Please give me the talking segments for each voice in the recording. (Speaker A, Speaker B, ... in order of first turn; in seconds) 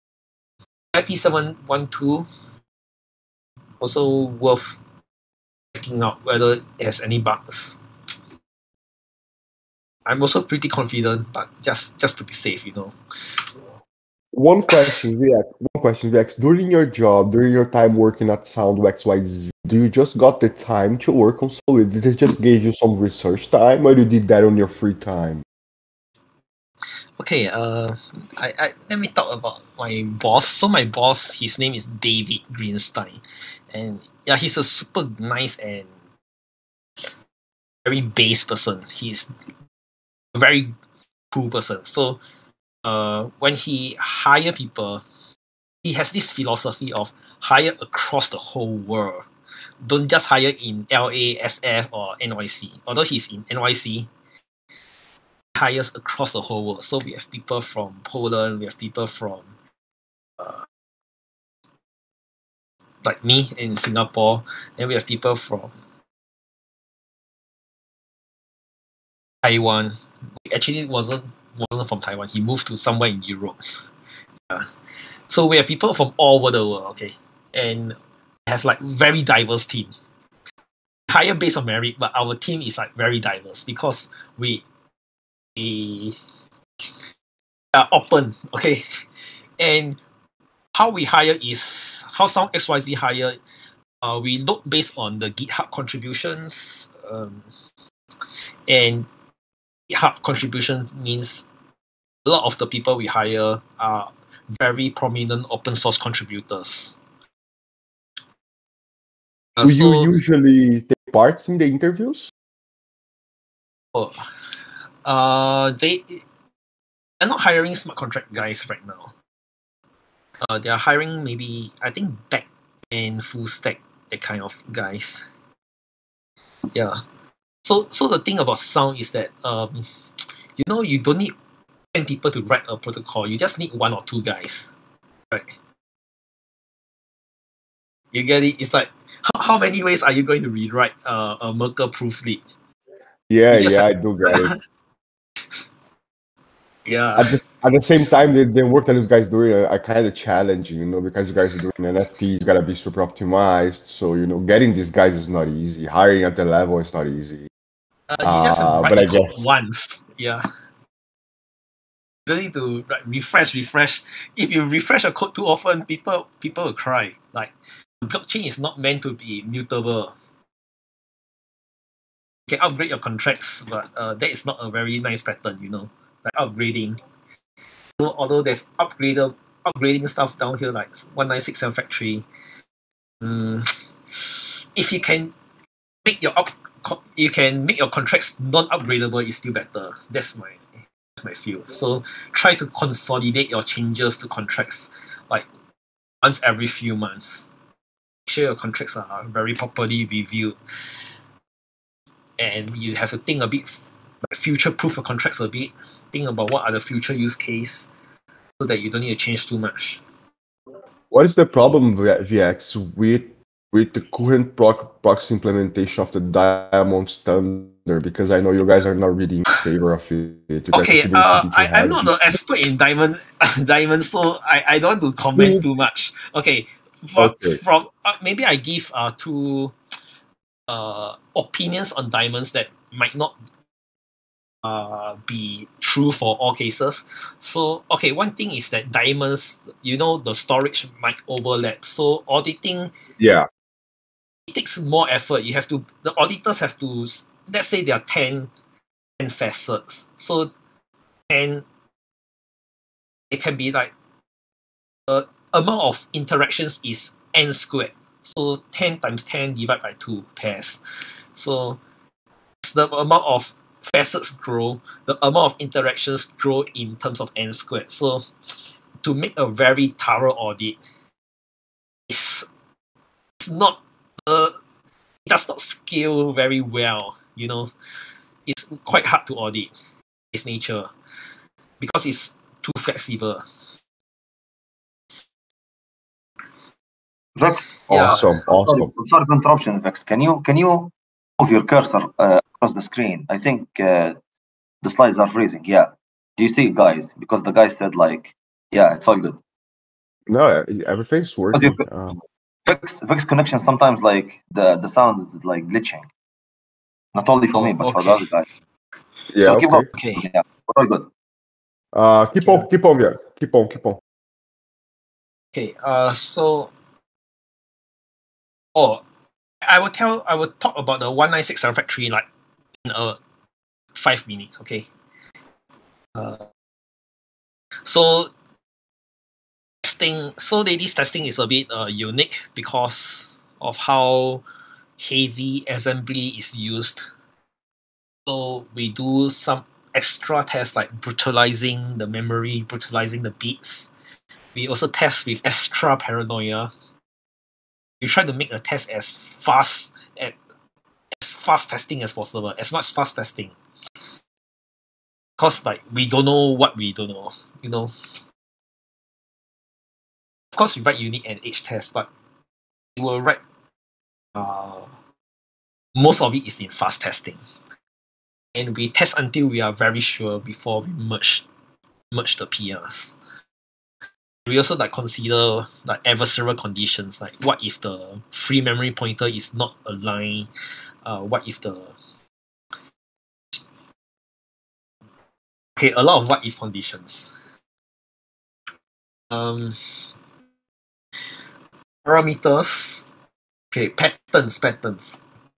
Speaker A: 0.9-2.3, 3.8-4.8, 5.7-7.8, 10.1-12.9, 27.2-33.2, 33.7-35.9, 37.8-39.3, 40.3-40.7, 41.3-42.2, 42.8-45.0, 45.8-49.3, 49.8-54.1, 55.5-59.5, 60.4-60.6, 63.0-65.7, 69.4-73.6, 75.3-77.9, 78.5-79.9, 81.1-84.6, 85.5-86.2, 87.7-88.8, 89.6-90.0, 90.8-93.4, 94.0-97.4, 98.7-99.1, 99.9-101.5, 102.2-106.9, 109.6-110.1, 113.9-114.2, 115.0-116.2, 117.2-119.1, 120.4-125.2, 126.7-127.0, 127.6-129.8, 130.6-131.3, 131.9-134.7, 138.1-142.4, 143.5-144.5, 146.8-147.4, 158.1-160.4, 162.3-170.1, 172.5-177.0, 178.0-182.2, 183.2-185.3, 186.0-190.6, 191.2-195.4, 196.2-197.5, 198.2-200.6, 202.4-207.9, 208.6-210.0, 220.7-229.8, 230.7-233.3, 234.6-242.9, 244.5-248.5, 249.2-250.5, 251.3-251.6, 253.3-253.9, 255.1-260.8, 261.4-261.8, 262.6-268.2, 269.0-270.8, 272.1-272.5, 273.4-274.5, 275.2-277.7, 278.4-279.7, 280.3-280.9, 281.8-283.4, 287.9-288.2, 307.5-308.2, 309.9-310.2, 312.4-312.6, 315.5-316.7, 318.7-319.0, 319.6-322.2, 322.9-323.2, 323.9-324.9, 326.1-326.4, 327.9-328.3, 329.8-334.4, 335.0-337.1, 338.3-343.9, 344.5-346.7, 348.0-350.4, 351.2-353.5, 355.4-357.9, 360.5-362.1, 363.0-363.4, 364.4-364.9, 365.9-367.4, 368.5-371.4, 372.1-373.1, 374.4-380.5, 381.0-381.9, 385.8-387.3, 389.3-389.8, 392.0-393.1, 393.7-395.2
Speaker B: 14.3-25.4, 109.6-112.3, 143.3-144.5, 147.2-157.5, 158.2-159.4, 211.1-222.1, 225.3-225.6, 227.2-227.6, 243.2-243.5, 287.9-288.9, 300.3-302.2, 309.3-309.9, 311.9-314.0
Speaker C: 287.4-294.2, 294.8-299.4, 301.5-301.8, 302.6-306.1, 307.1-308.4, 309.4-311.1